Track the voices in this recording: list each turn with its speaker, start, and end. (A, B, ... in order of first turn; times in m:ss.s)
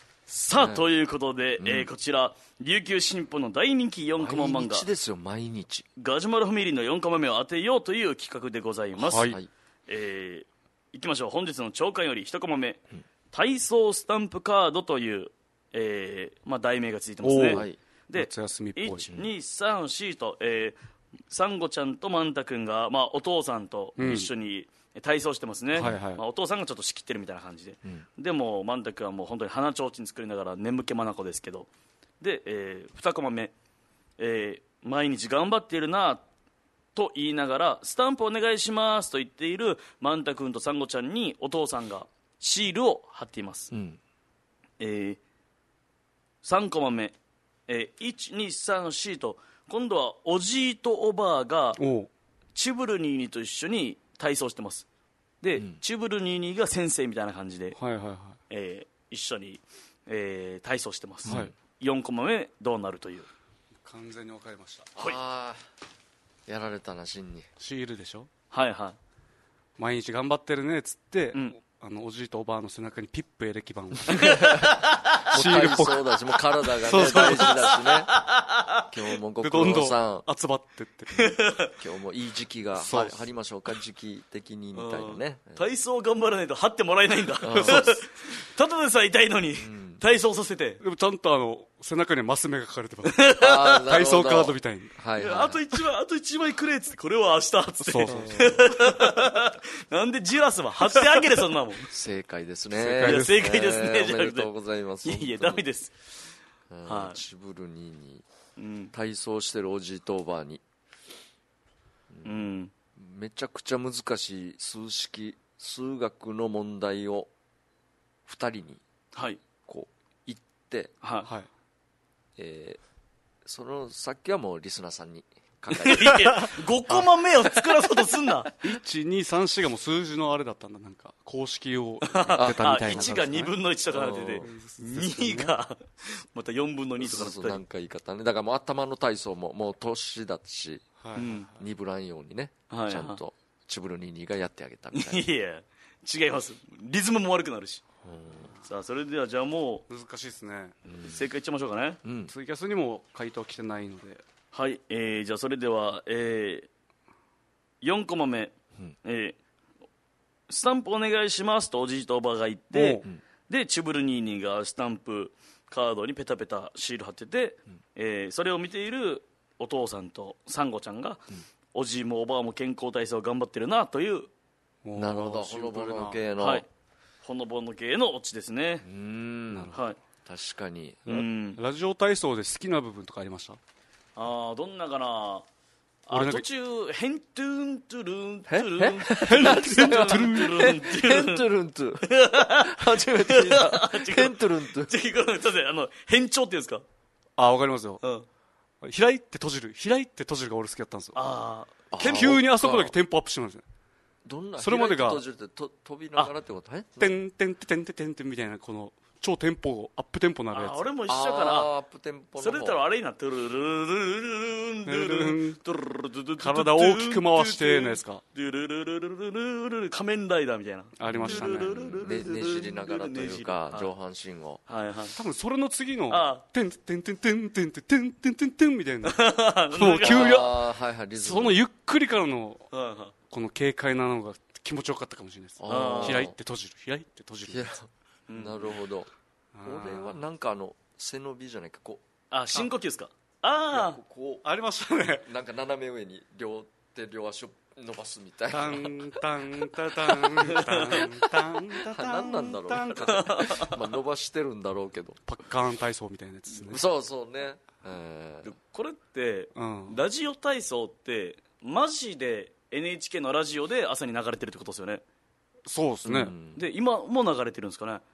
0:00.3-0:04.9 A
0:00.5-0:00.8 B
0:01.6-0:01.9 B
0:04.2-0:05.9 B
0:06.0-0:09.3 A
0:09.0-0:09.4 C
0:09.9-0:12.8 A
0:13.3-0:20.8 A
0:17.2-0:19.0 C
0:17.5-0:17.8 B
0:21.3-0:31.7 A
0:24.0-0:24.3 C
0:25.8-0:26.2 C
0:32.2-0:33.5 A
0:34.2-0:36.2 A
0:37.0-0:43.7 A
0:43.7-0:44.0 B
0:44.8-0:45.2 A
0:46.4-0:47.2 A
0:47.7-0:51.8 A
0:51.8-0:52.1 C
0:52.6-0:54.9 A
0:55.4-0:57.8 A
0:55.6-0:55.8 B
0:57.8-0:58.4 C
0:58.5-1:03.3 A
1:01.2-1:01.5 B
1:01.3-1:01.5 C
1:03.8-1:04.9 C
1:05.0-1:05.6 B
1:06.5-1:07.5 B
1:07.6-1:08.3 C
1:08.5-1:09.0 A
1:09.8-1:14.6 C
1:14.1-1:18.2 B
1:14.2-1:15.2 A
1:15.3-1:16.3 C
1:16.8-1:17.7 C
1:16.9-1:18.8 A
1:18.9-1:20.3 B
1:19.4-1:21.4 C
1:21.2-1:21.7 A
1:21.8-1:25.6 B
1:22.7-1:23.3 C
1:24.8-1:30.8 A
1:27.4-1:28.0 B
1:29.6-1:30.0 B
1:30.8-1:33.3 C
1:33.0-1:33.8 A
1:33.4-1:35.6 B
1:33.8-1:35.0 C
1:35.2-1:41.8 A
1:37.8-1:38.7 C
1:38.1-1:38.6 B
1:41.9-1:45.6 B
1:42.7-1:43.4 C
1:43.0-1:44.5 A
1:45.0-1:45.9 A
1:46.7-1:48.2 B
1:46.9-1:47.2 A
1:48.6-1:48.9 A
1:48.9-1:50.6 B
1:52.1-1:52.4 B
1:52.2-1:52.7 A
1:53.0-1:57.3 B
1:58.3-1:58.8 B
1:59.2-1:59.4 A
1:59.7-2:00.9 B
2:01.0-2:01.3 A
2:02.4-2:02.8 B
2:03.4-2:06.5 B
2:05.7-2:08.5 A
2:08.6-2:13.6 C
2:12.1-2:17.6 A
2:12.4-2:13.2 B
2:13.9-2:14.5 B
2:14.4-2:15.6 C
2:17.0-2:20.9 B
2:21.0-2:21.6 C
2:21.2-2:21.5 A
2:21.5-2:25.2 B
2:22.7-2:23.2 A
2:24.9-2:27.8 A
2:28.0-2:28.5 B
2:28.6-2:29.8 A
2:29.9-2:30.8 C
2:30.9-2:31.2 B
2:31.0-2:32.0 A
2:32.0-2:32.3 B
2:32.3-2:34.2 C
2:34.5-2:36.7 A
2:37.8-2:39.4 A
2:40.5-2:54.3 A
2:42.7-2:43.1 C
2:54.8-2:56.2 C
2:55.0-2:56.6 B
2:56.4-2:56.7 A
2:57.2-2:58.8 A
2:58.8-3:01.1 B
2:59.5-2:59.8 C
3:01.1-3:01.6 A
3:01.1-3:03.6 C
3:04.2-3:05.5 A
3:06.1-3:11.5 A
3:06.1-3:06.5 C
3:08.5-3:14.9 B
3:09.2-3:10.8 C
3:12.0-3:16.8 A
3:17.4-3:18.0 C
3:18.8-3:21.2 C
3:21.2-3:22.2 A
3:21.9-3:22.9 B
3:22.0-3:23.6 C
3:24.2-3:27.2 B
3:24.6-3:25.2 C
3:27.0-3:30.9 C
3:30.5-3:31.7 A
3:31.1-3:32.8 B
3:32.4-3:43.9 A
3:34.9-3:35.6 C
3:36.4-3:38.2 C
3:41.0-3:42.0 C
3:41.1-3:44.6 B
3:44.7-3:45.2 A
3:45.2-3:52.7 C
3:46.1-3:46.4 A
3:49.0-3:50.4 A
3:50.0-3:51.6 B
3:52.7-3:53.1 A
3:53.3-3:57.8 C
3:55.6-3:56.4 B
3:55.7-3:56.3 A
3:57.5-3:59.1 B
3:58.3-3:58.7 A
3:59.6-4:00.2 C
3:59.6-4:02.0 B
4:02.3-4:04.0 A
4:03.7-4:04.4 B
4:04.4-4:05.3 C
4:05.2-4:09.1 B
4:08.5-4:13.4 C
4:10.4-4:11.0 A
4:11.7-4:15.2 B
4:13.0-4:13.8 A
4:15.3-4:16.8 C
4:16.6-4:18.5 B
4:18.4-4:25.0 A
4:19.6-4:20.0 C
4:25.7-4:26.3 C
4:26.0-4:26.6 B
4:26.6-4:28.0 A